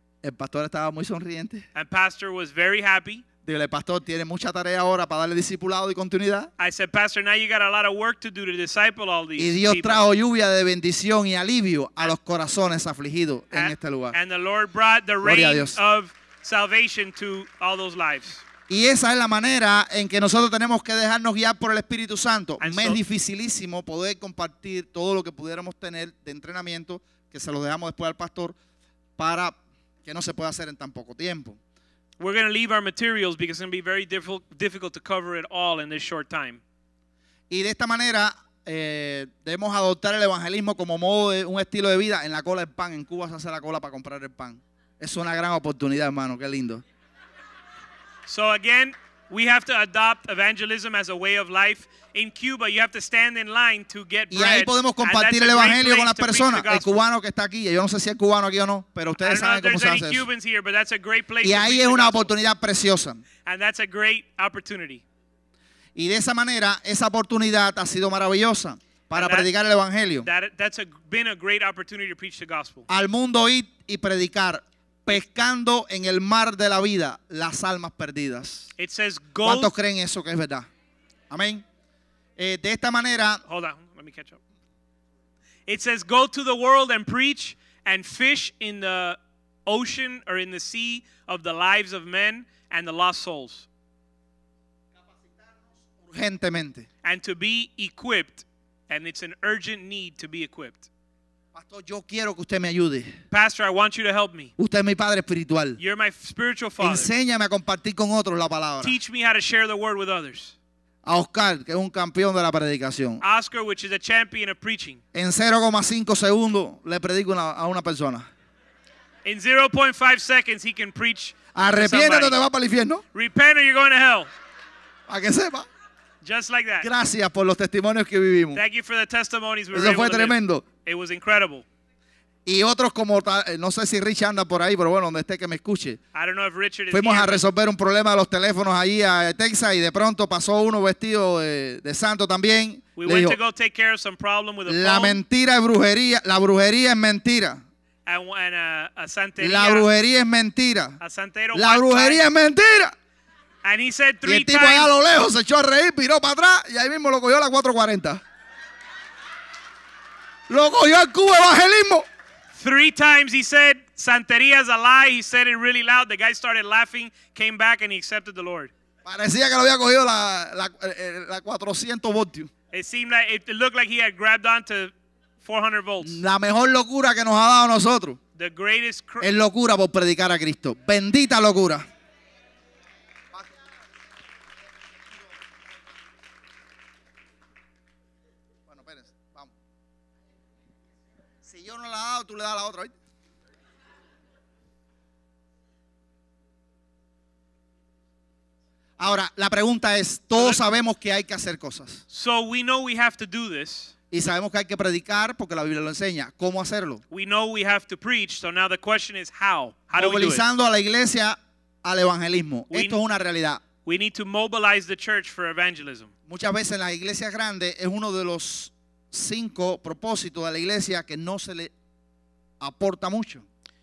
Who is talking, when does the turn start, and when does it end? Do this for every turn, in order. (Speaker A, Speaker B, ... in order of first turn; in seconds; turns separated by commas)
Speaker A: 0.2-1.6, Speaker B: 1.7-3.2, Speaker A: 3.4-6.5, Speaker B: 6.6-10.0, Speaker A: 9.4-14.2, Speaker B: 13.5-18.4, Speaker A: 15.2-15.8, Speaker A: 18.7-28.6, Speaker B: 22.6-23.0, Speaker A: 29.2-31.6, Speaker B: 32.2-36.6, Speaker A: 37.5-46.8, Speaker B: 48.2-57.0, Speaker A: 54.3-60.2, Speaker B: 59.2-62.3, Speaker A: 61.4-63.2, Speaker B: 63.4-65.0, Speaker A: 65.9-70.3, Speaker B: 69.1-69.5, Speaker B: 70.2-72.8, Speaker A: 72.9-78.7, Speaker B: 78.8-79.7, Speaker A: 79.4-80.7, Speaker A: 81.3-81.6, Speaker A: 82.4-83.4, Speaker B: 83.4-84.4, Speaker B: 85.7-93.7, Speaker A: 96.0-96.9, Speaker B: 97.0-100.9, Speaker A: 101.5-103.1, Speaker B: 103.3-104.5, Speaker A: 104.6-105.8, Speaker B: 105.8-107.1, Speaker A: 106.8-109.0, Speaker B: 108.8-110.5, Speaker A: 111.0-113.2, Speaker B: 113.2-115.0, Speaker A: 115.1-118.3, Speaker B: 119.2-122.4, Speaker A: 121.5-123.0, Speaker B: 123.1-124.3, Speaker A: 125.1-125.7, Speaker B: 126.2-126.9, Speaker A: 126.8-128.6, Speaker B: 128.5-131.7, Speaker A: 129.7-130.6, Speaker A: 132.4-136.0, Speaker B: 136.1-137.4, Speaker A: 136.9-143.4, Speaker B: 142.9-145.2, Speaker A: 144.7-147.6, Speaker B: 148.1-149.9, Speaker A: 149.4-151.0, Speaker B: 151.0-152.2, Speaker A: 151.5-152.9, Speaker B: 153.6-154.9, Speaker A: 154.2-158.2, Speaker A: 160.5-162.1, Speaker B: 162.5-168.7, Speaker A: 169.0-172.5, Speaker B: 172.7-176.2, Speaker A: 176.0-178.2, Speaker B: 178.3-179.3, Speaker A: 179.2-181.8, Speaker A: 188.7-189.5, Speaker A: 191.4-192.9, Speaker A: 199.0-202.0, Speaker B: 200.3-200.6, Speaker B: 202.1-203.9, Speaker A: 204.1-207.0, Speaker B: 207.1-210.4, Speaker A: 209.9-213.6, Speaker B: 212.7-213.0, Speaker B: 213.8-216.1, Speaker A: 216.3-221.7, Speaker A: 222.6-223.4